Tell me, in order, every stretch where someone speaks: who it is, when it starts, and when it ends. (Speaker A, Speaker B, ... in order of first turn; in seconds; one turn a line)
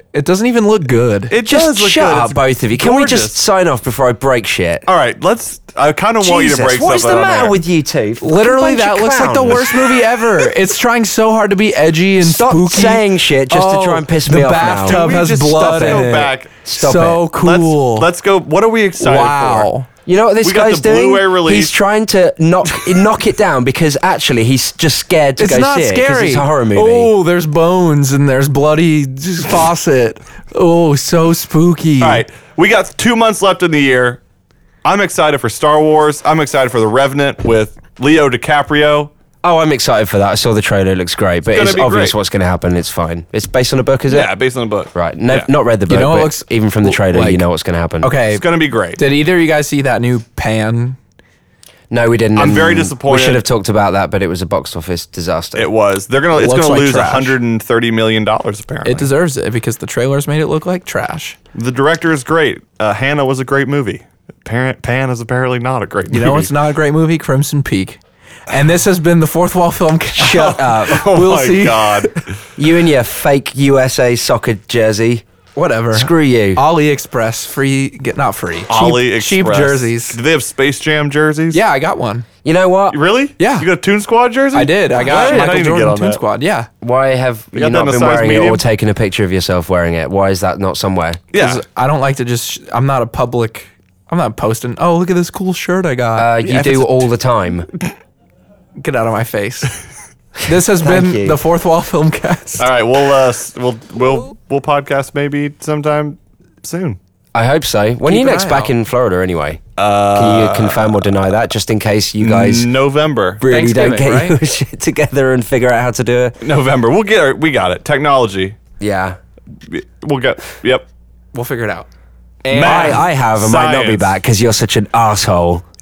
Speaker A: 0.1-1.4
Speaker B: 1.3-3.4
Speaker C: 1.5-4.9
Speaker B: 4.9-7.6
Speaker C: 6.2-9.8
Speaker A: 8.2-18.1
Speaker C: 12.2-15.1
Speaker B: 14.5-16.7
Speaker C: 15.7-16.1
Speaker C: 16.6-17.2
Speaker B: 17.3-19.7
Speaker A: 19.0-19.9
Speaker C: 20.1-27.1
Speaker B: 20.4-21.7
Speaker B: 22.6-23.1
Speaker A: 25.4-32.2
Speaker B: 32.0-34.2
Speaker B: 34.8-39.1
Speaker C: 39.4-44.3
Speaker B: 41.5-42.1
Speaker B: 44.1-45.5
Speaker C: 44.9-48.1
Speaker A: 45.9-47.4
Speaker A: 48.0-51.0
Speaker B: 48.3-49.0
Speaker C: 51.9-55.7
Speaker B: 52.4-53.4
Speaker B: 55.5-59.1
Speaker A: 56.3-57.4
Speaker A: 58.9-61.4
Speaker B: 61.5-66.5
Speaker A: 66.1-72.2
Speaker C: 70.2-71.1
Speaker B: 70.4-72.3
Speaker C: 72.6-75.2
Speaker A: 75.6-80.2
Speaker C: 75.9-76.6
Speaker B: 78.7-81.6
Speaker A: 81.5-82.3
Speaker C: 82.4-83.0
Speaker B: 82.9-86.2
Speaker A: 83.4-83.7
Speaker A: 84.5-86.7
Speaker C: 86.8-91.2
Speaker B: 87.5-88.6
Speaker B: 91.3-91.6
Speaker A: 91.3-97.1
Speaker C: 96.2-97.7
Speaker A: 98.8-99.8
Speaker A: 100.4-102.7
Speaker C: 100.8-101.4
Speaker B: 102.6-107.0
Speaker C: 107.3-109.6
Speaker A: 108.0-108.7
Speaker B: 109.8-111.1
Speaker C: 110.1-112.7
Speaker B: 112.2-113.4
Speaker C: 113.4-116.4
Speaker A: 113.5-114.4
Speaker B: 116.4-118.6
Speaker C: 118.8-119.2
Speaker B: 119.7-120.8
Speaker A: 121.3-121.9
Speaker A: 122.5-123.0
Speaker B: 122.5-124.1
Speaker C: 122.5-125.6